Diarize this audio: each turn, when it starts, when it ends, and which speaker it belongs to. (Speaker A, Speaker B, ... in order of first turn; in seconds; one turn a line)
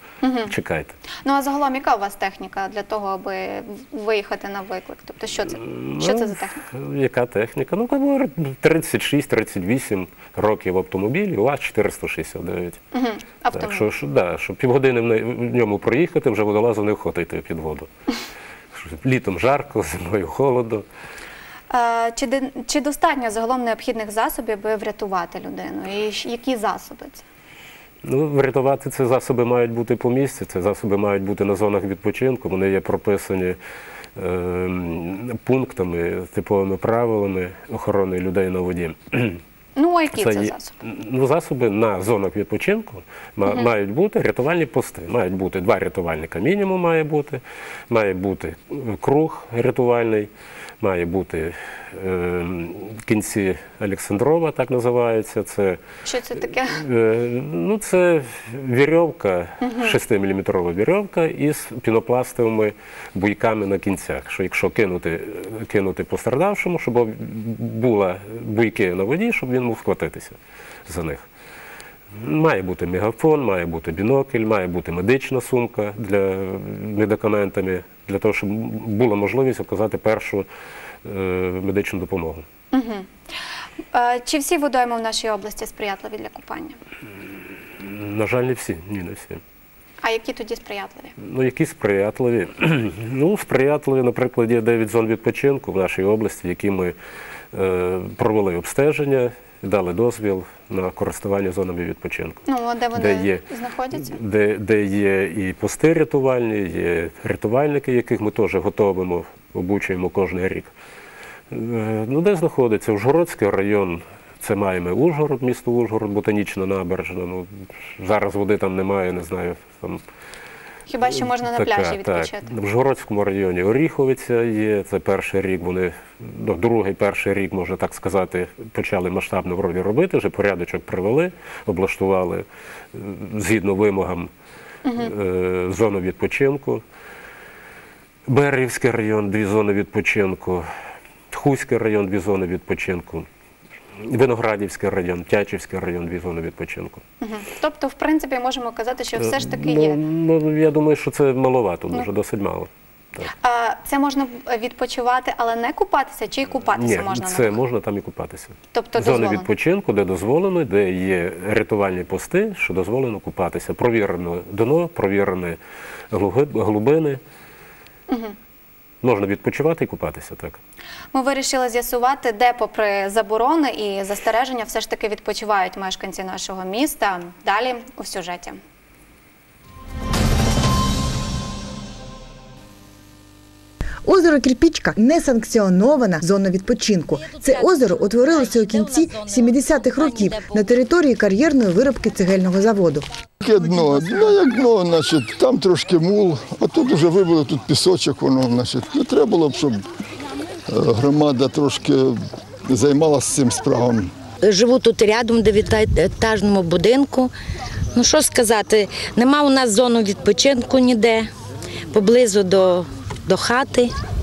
Speaker A: 0.2-0.5
Speaker B: 0.5-1.0
Speaker A: 1.2-6.7
Speaker B: 5.6-12.8
Speaker A: 12.9-13.9
Speaker B: 13.5-17.9
Speaker B: 18.7-20.9
Speaker A: 21.7-27.2
Speaker B: 28.0-33.6
Speaker B: 34.2-39.4
Speaker A: 39.8-40.7
Speaker B: 40.1-55.8
Speaker A: 56.0-56.8
Speaker B: 56.6-71.2
Speaker A: 59.6-60.0
Speaker B: 72.2-80.5
Speaker B: 81.0-82.5
Speaker A: 82.7-83.1
Speaker A: 83.9-86.8
Speaker B: 87.8-89.4
Speaker A: 90.0-91.2
Speaker B: 91.2-97.0
Speaker B: 97.5-102.4
Speaker A: 102.5-104.2
Speaker B: 103.0-103.4
Speaker B: 104.0-110.7
Speaker B: 111.5-120.0
Speaker A: 120.9-122.5
Speaker B: 121.2-134.3
Speaker A: 134.8-135.1
Speaker B: 134.9-136.8
Speaker B: 138.3-140.7
Speaker B: 141.3-143.3
Speaker B: 144.0-147.0
Speaker A: 147.2-150.0
Speaker B: 149.2-153.3
Speaker A: 153.4-157.6
Speaker B: 156.7-165.6
Speaker A: 158.7-159.5
Speaker B: 166.1-167.2
Speaker A: 168.1-168.3
Speaker B: 169.0-170.6
Speaker A: 171.1-178.6
Speaker C: 184.0-193.1
Speaker D: 193.4-199.9
Speaker D: 200.7-204.1
Speaker E: 204.4-207.3
Speaker E: 207.9-211.3
Speaker E: 211.9-213.9